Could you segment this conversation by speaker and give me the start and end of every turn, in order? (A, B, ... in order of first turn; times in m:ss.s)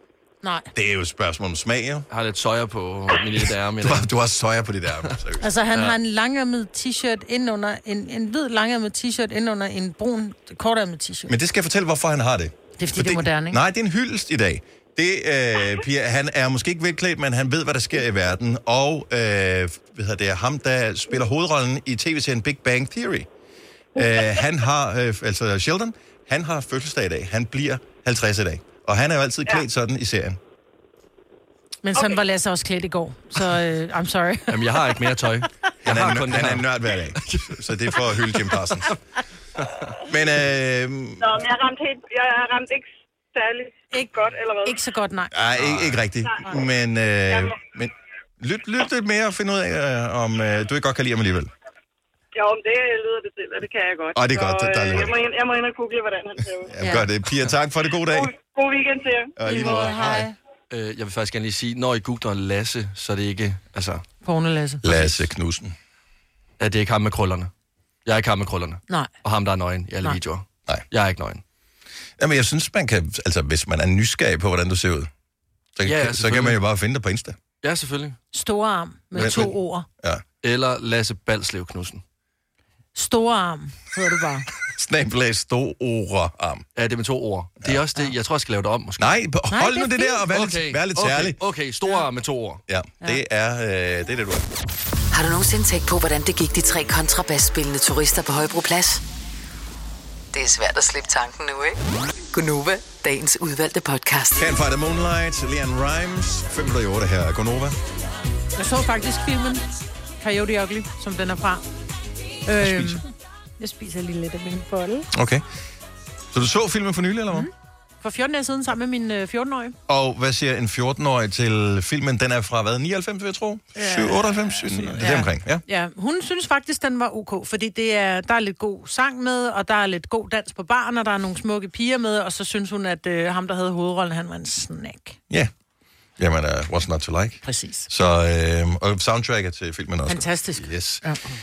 0:00.4-0:00.7 A
0:00.7-0:02.1 B
0:02.1-0:04.1 C
0:03.8-0:05.5 B
0:05.4-0:11.3 A
0:11.3-0:23.3 B
0:12.8-0:13.6 A
0:24.0-0:30.4 B
0:31.8-0:34.6 A
0:31.9-0:32.2 D
0:34.5-0:36.6 C
0:35.8-0:38.9 B
0:37.2-0:38.7 C
0:40.0-0:41.3 B
0:41.2-0:44.8 D
0:44.6-0:45.3 A
0:45.3-0:51.5 B
0:45.6-0:46.0 C
0:46.2-0:46.6 D
0:47.3-0:47.5 D
0:52.3-0:56.7 D
0:54.1-0:55.1 B
0:56.7-0:58.3 B
0:56.8-0:57.1 A
0:58.1-1:00.0 D
0:59.4-1:00.3 B
0:59.4-1:00.4 A
1:00.7-1:04.0 C
1:04.2-1:04.8 A
1:04.8-1:05.7 B
1:04.9-1:05.2 C
1:06.6-1:07.5 C
1:08.0-1:11.4 C
1:12.2-1:15.1 B
1:15.8-1:17.4 B
1:15.8-1:16.6 C
1:17.6-1:18.2 C
1:18.3-1:19.8 A
1:19.1-1:20.2 B
1:20.4-1:22.0 C
1:22.9-1:24.5 A
1:24.7-1:26.6 B
1:26.8-1:29.2 C
1:29.0-1:31.4 B
1:29.5-1:30.2 A
1:30.3-1:32.6 C
1:32.7-1:34.5 B
1:35.1-1:39.0 E
1:40.3-1:41.8 E
1:42.3-1:44.5 E
1:44.4-1:47.8 B
1:48.6-1:49.6 A
1:50.2-1:51.6 A
1:52.5-1:53.0 A
1:52.6-1:53.0 B
1:53.6-1:55.1 A
1:55.1-1:55.4 B
1:56.3-1:57.5 B
1:58.0-1:59.7 A
1:59.9-2:05.6 B
2:03.8-2:15.2 A
2:16.2-2:21.0 B
2:17.4-2:17.9 A
2:20.1-2:21.2 A